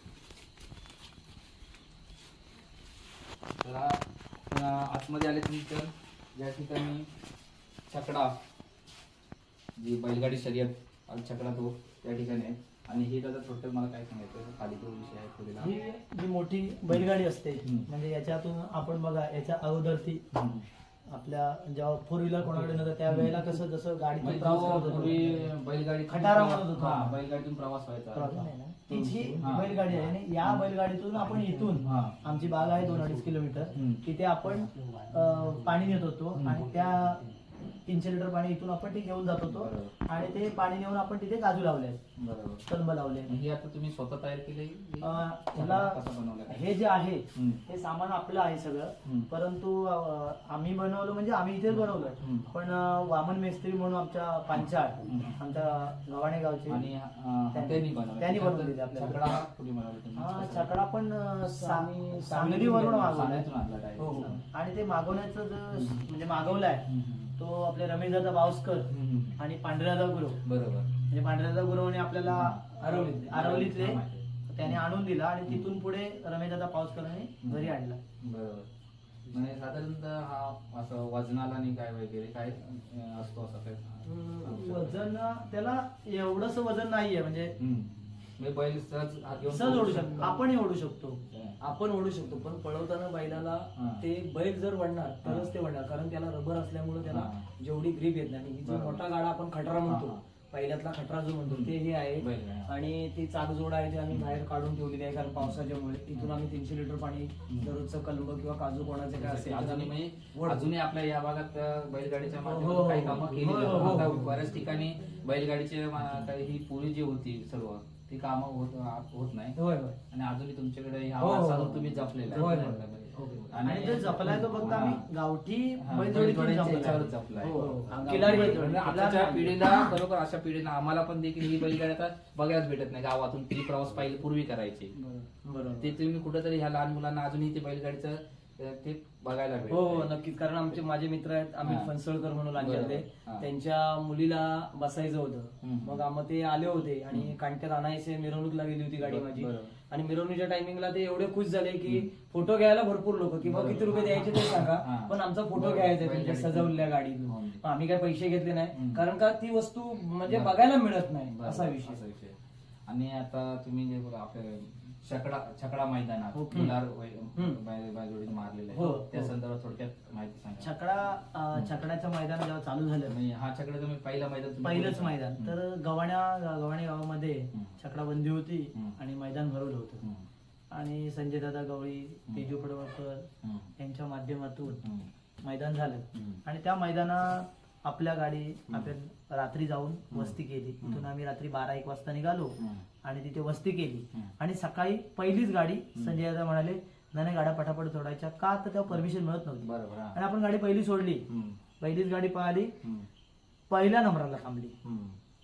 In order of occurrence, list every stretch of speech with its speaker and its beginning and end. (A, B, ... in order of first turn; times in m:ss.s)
0:03.6-0:07.1 A
0:07.9-0:08.4 A
0:09.8-0:15.8 A
0:15.6-0:20.2 B
0:20.3-0:20.6 A
0:21.1-0:25.5 B
0:22.4-0:23.6 A
0:24.2-0:33.2 A
0:26.1-0:27.2 B
0:28.1-0:37.2 B
0:28.9-0:29.3 C
0:33.7-0:34.0 A
0:34.5-0:36.0 C
0:36.3-0:36.8 A
0:36.7-0:37.3 C
0:37.8-0:42.0 B
0:39.5-0:40.0 A
0:42.2-0:42.6 A
0:42.7-0:43.4 B
0:43.2-0:46.7 A
0:45.0-0:56.8 B
0:47.3-0:47.6 A
0:52.1-0:52.5 A
0:55.0-0:55.4 A
0:56.7-1:00.7 A
0:57.5-0:59.4 B
1:00.2-1:03.4 B
1:01.5-1:03.2 C
1:02.9-1:04.4 A
1:04.0-1:04.4 C
1:04.2-1:06.8 B
1:05.7-1:06.1 A
1:06.8-1:07.3 A
1:07.4-1:10.4 B
1:08.9-1:09.4 A
1:10.4-1:10.9 A
1:11.1-1:18.0 B
1:12.2-1:14.8 A
1:12.8-1:13.3 C
1:17.4-1:18.7 A
1:19.3-1:25.1 A
1:24.0-1:24.6 C
1:24.5-1:27.5 B
1:27.6-1:30.2 A
1:29.5-1:31.2 B
1:29.7-1:30.5 C
1:31.3-1:31.6 A
1:31.6-1:50.6 C
1:33.8-1:34.0 A
1:35.2-1:35.5 A
1:37.0-1:37.4 A
1:38.6-1:39.0 A
1:39.9-1:40.2 A
1:41.4-1:42.7 A
1:44.1-1:44.4 A
1:46.1-1:46.5 A
1:47.5-1:47.8 A
1:49.1-1:59.6 A
1:52.3-1:54.6 C
1:59.6-2:00.0 C
2:00.1-2:05.0 A
2:01.2-2:05.0 C
2:02.3-2:02.7 B
2:03.6-2:09.3 B
2:05.8-2:14.9 A
2:07.4-2:09.7 C
2:15.0-2:16.0 C
2:15.8-2:20.1 A
2:19.7-2:42.0 C
2:21.6-2:21.9 A
2:22.6-2:23.5 A
2:25.6-2:26.0 A
2:29.0-2:29.7 A
2:31.8-2:32.1 A
2:33.4-2:37.6 A
2:38.7-2:39.0 A
2:40.3-2:40.6 A
2:41.3-2:42.4 A
2:42.9-2:50.7 A
2:46.3-2:46.8 C
2:48.7-2:49.3 C
2:50.6-2:53.1 B
2:53.1-2:55.5 A
2:54.6-3:00.0 B
3:00.7-3:03.3 B
3:03.4-3:03.7 A
3:03.8-3:04.8 B
3:04.8-3:05.1 A
3:05.4-3:21.2 B
3:06.1-3:06.4 A
3:10.1-3:11.0 A
3:12.6-3:12.8 A
3:19.6-3:20.2 A
3:21.3-3:21.6 A
3:21.8-3:22.7 B
3:22.8-3:23.1 A
3:23.7-3:24.7 B
3:24.8-3:25.2 A